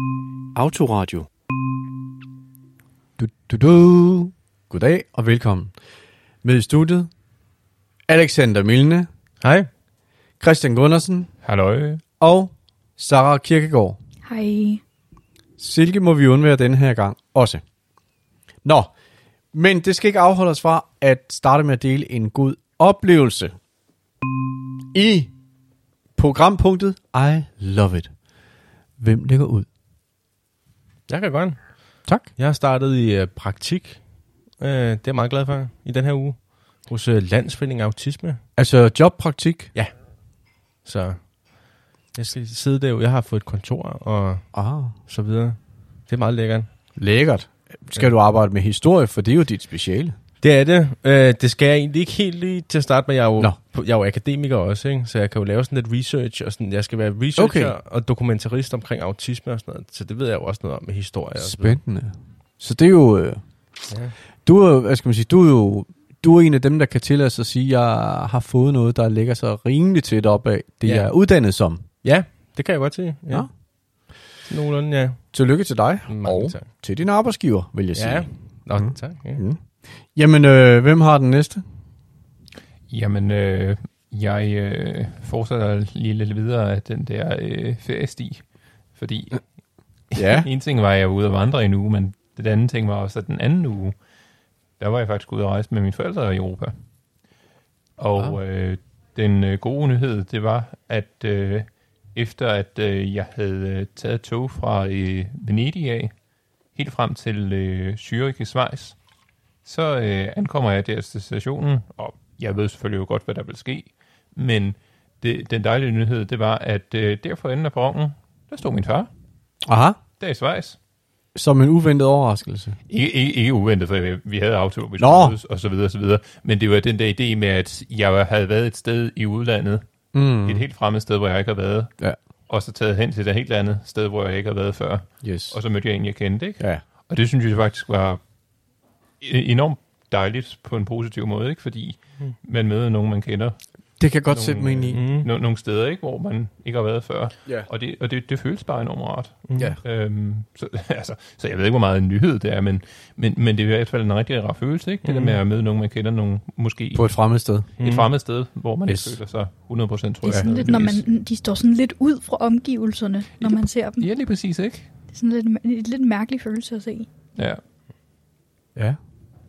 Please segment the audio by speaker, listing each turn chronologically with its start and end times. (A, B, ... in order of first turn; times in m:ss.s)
0:00.5-0:01.3 A
0:03.2-0:05.7 A
0:06.4-0:07.1 A
0:08.1-0:09.1 A
0:09.4-0:09.7 B
0:10.4-0:11.3 A
0:11.4-0:12.0 C
0:12.2-0:14.0 A
0:14.2-0:14.8 D
0:15.6-0:17.6 A
0:18.6-0:18.9 A
0:19.5-0:23.5 A
0:24.9-0:25.3 A
0:26.2-0:28.1 A
0:29.0-0:29.7 A
0:31.1-0:34.0 B
0:32.0-0:32.3 A
0:34.6-0:38.4 B
0:38.6-0:39.7 A
0:39.7-0:40.0 B
0:40.8-0:44.5 B
0:44.5-0:45.0 A
0:45.0-0:46.7 B
0:47.0-0:50.1 A
0:50.4-1:01.8 B
0:57.4-0:57.8 A
1:01.4-1:03.4 A
1:03.9-1:04.1 B
1:04.4-1:11.8 A
1:10.8-1:11.1 B
1:12.0-1:13.6 B
1:14.4-1:15.3 B
1:15.3-1:21.6 A
1:16.1-1:16.7 B
1:17.9-1:19.4 B
1:22.9-1:28.4 C
1:28.9-1:29.4 C
1:30.1-1:33.9 C
1:30.1-1:30.5 A
1:34.8-1:36.7 C
1:38.0-1:46.1 C
1:46.7-1:49.0 C
1:49.6-1:59.1 C
1:59.6-2:00.0 A
2:00.2-2:00.8 C
2:01.3-2:02.8 A
2:02.9-2:09.9 C
2:05.0-2:05.4 A
2:10.1-2:10.7 A
2:10.4-2:11.9 C
2:12.5-2:18.2 C
2:15.2-2:15.6 A
2:19.2-2:23.6 C
2:24.0-2:25.0 A
2:24.3-2:37.1 C
2:24.9-2:25.3 B
2:29.5-2:29.8 B
2:35.0-2:35.4 B
2:36.9-2:37.7 A
2:37.8-2:41.0 C
2:37.8-2:38.1 B
2:38.9-2:39.2 A
2:40.3-2:40.6 A
2:40.3-2:44.0 D
2:43.4-2:44.9 C
2:45.1-2:47.1 D
2:47.4-2:47.6 C